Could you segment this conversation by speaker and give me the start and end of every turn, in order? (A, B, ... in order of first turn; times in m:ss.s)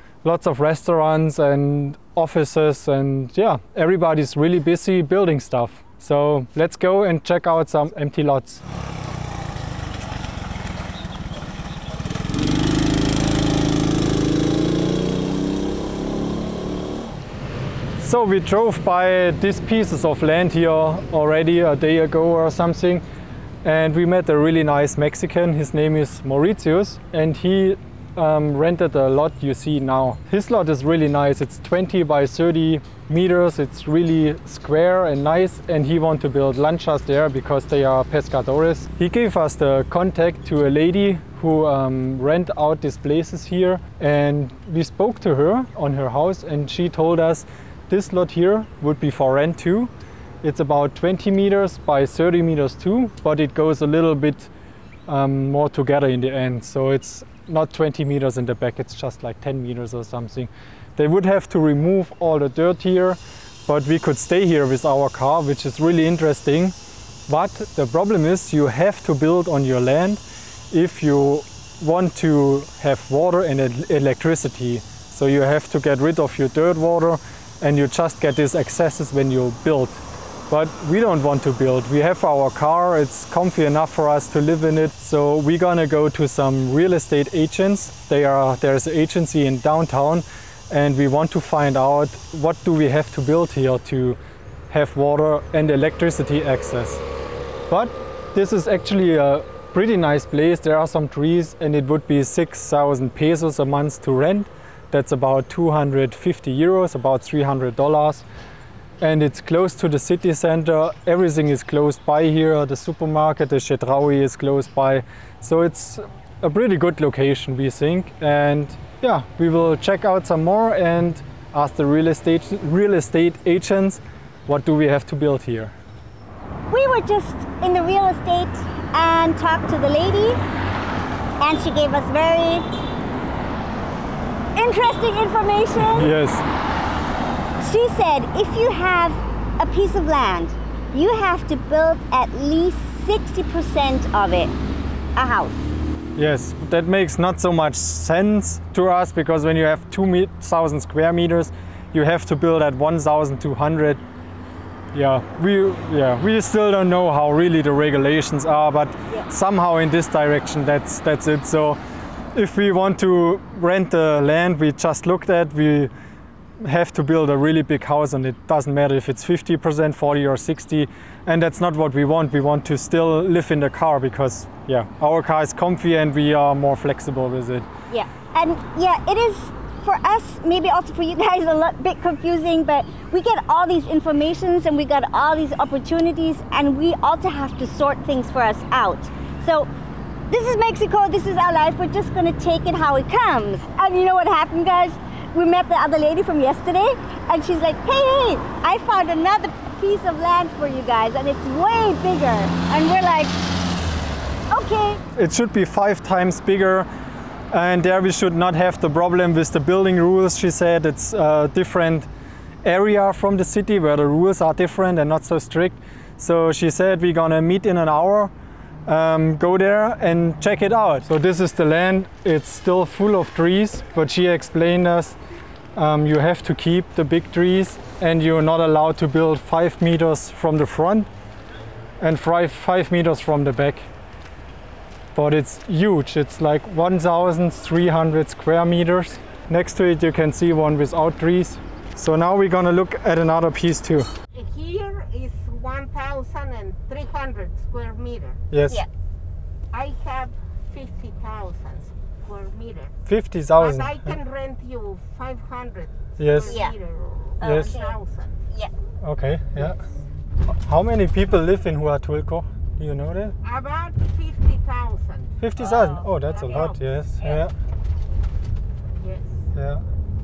0:00.2-0:08.6 A
0:18.0-0:23.0 A
0:23.6-0:49.9 A
0:50.4-0:54.5 A
0:55.1-1:06.8 A
1:07.3-1:34.2 A
1:34.7-1:37.0 A
1:37.7-1:48.2 A
1:49.0-2:05.7 A
2:06.7-2:10.4 B
2:11.4-2:12.7 B
2:14.6-2:16.1 B
2:15.8-2:16.4 A
2:17.6-2:24.5 B
2:25.2-2:25.6 B
2:26.2-2:34.0 A
2:34.9-2:41.8 A
2:42.3-2:45.9 A
2:46.6-2:57.7 A
2:57.9-3:09.7 B
3:10.3-3:23.4 B
3:24.5-3:25.0 B
3:25.2-3:26.9 A
3:27.5-3:32.1 A
3:32.6-3:38.3 A
3:38.9-3:45.2 A
3:45.8-3:51.1 A
3:52.0-3:53.9 A
3:55.1-4:04.1 A
4:04.3-4:08.4 C
4:08.5-4:08.8 A
4:09.7-4:13.0 C
4:13.1-4:14.1 A
4:13.6-4:18.4 C
4:16.2-4:16.6 A
4:16.4-4:16.8 B
4:17.4-4:18.0 B
4:17.4-4:17.7 A
4:19.0-4:19.8 A
4:20.5-4:23.3 A
4:23.4-4:27.4 C
4:25.4-4:27.5 A
4:29.0-4:29.4 C
4:29.6-4:29.8 A